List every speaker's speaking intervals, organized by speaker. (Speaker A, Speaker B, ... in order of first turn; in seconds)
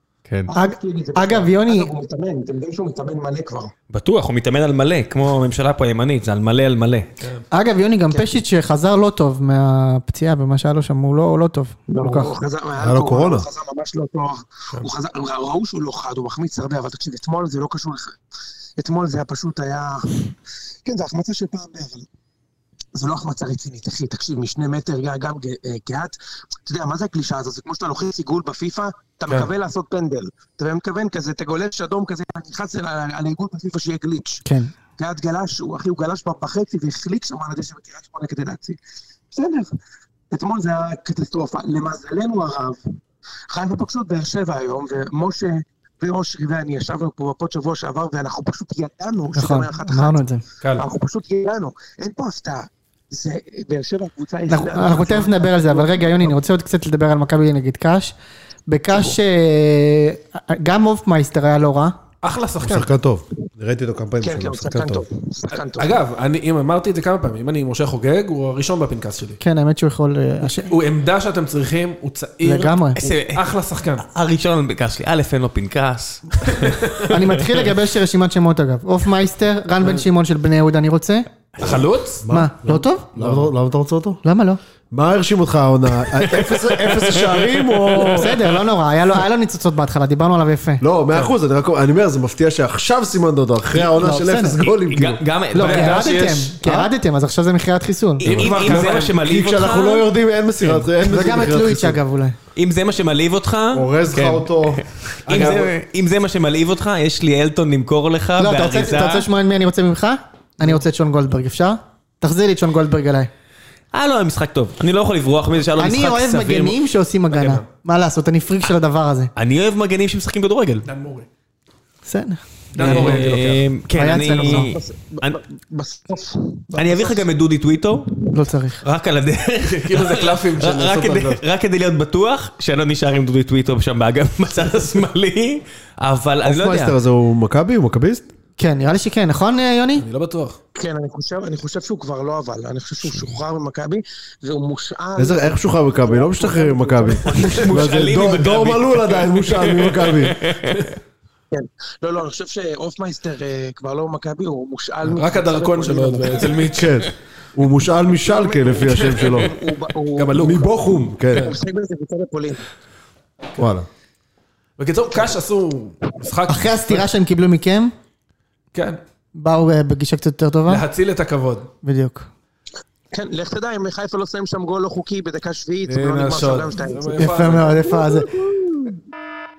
Speaker A: 0.3-0.5, 3.9-7.1, 73.0-73.4, 74.0-77.2, 87.1-87.4, 94.9-96.1, 98.2-100.1, 102.5-109.3, 113.9-116.8, 119.3-120.8, 122.8-125.4, 126.7-128.2, 128.8-137.0, 147.2-150.9
Speaker B: 0.5-3.7, 11.9-18.2, 18.8-22.1, 22.9-26.1, 26.6-34.4, 35.0-38.8, 39.3-39.7, 40.3-43.0, 43.5-50.2, 50.8-56.4, 64.2-66.0, 124.3-127.2, 140.7-147.7, 151.5-156.7, 158.2-160.8, 161.3-162.6, 173.1-178.9
Speaker C: 0.5-1.9, 7.5-12.4, 34.4-34.7, 49.3-50.4, 54.5-58.1, 58.7-62.0, 69.4-70.7, 72.4-73.0, 77.1-81.3, 82.2-83.1, 84.2-84.6, 88.1-90.8, 93.8-94.7, 95.5-98.3, 101.0-102.3, 108.4-113.3, 115.8-119.3, 122.0-123.3, 124.0-124.7, 128.3-128.8, 138.6-140.1, 166.5-167.9, 169.3-170.8, 171.8-172.3, 177.1-178.3
Speaker D: 7.2-7.4, 62.2-62.9, 65.7-69.4, 70.7-74.0, 76.4-77.1, 81.6-82.2, 95.5-96.8, 98.2-99.2, 105.2-105.7, 117.3-117.7, 120.8-121.3, 122.7-123.7, 129.6-131.4, 140.0-140.6, 155.0-156.9, 159.0-159.4, 160.2-160.7, 161.3-161.6, 164.8-167.1, 168.7-169.0, 170.7-171.7, 175.9-177.9
Speaker E: 12.8-13.5, 62.6-65.0, 82.2-84.2, 84.9-88.4, 90.8-95.2, 98.2-102.0, 103.7-104.8, 136.4-138.3, 145.2-150.4, 156.7-159.5, 160.3-161.5, 163.6-163.9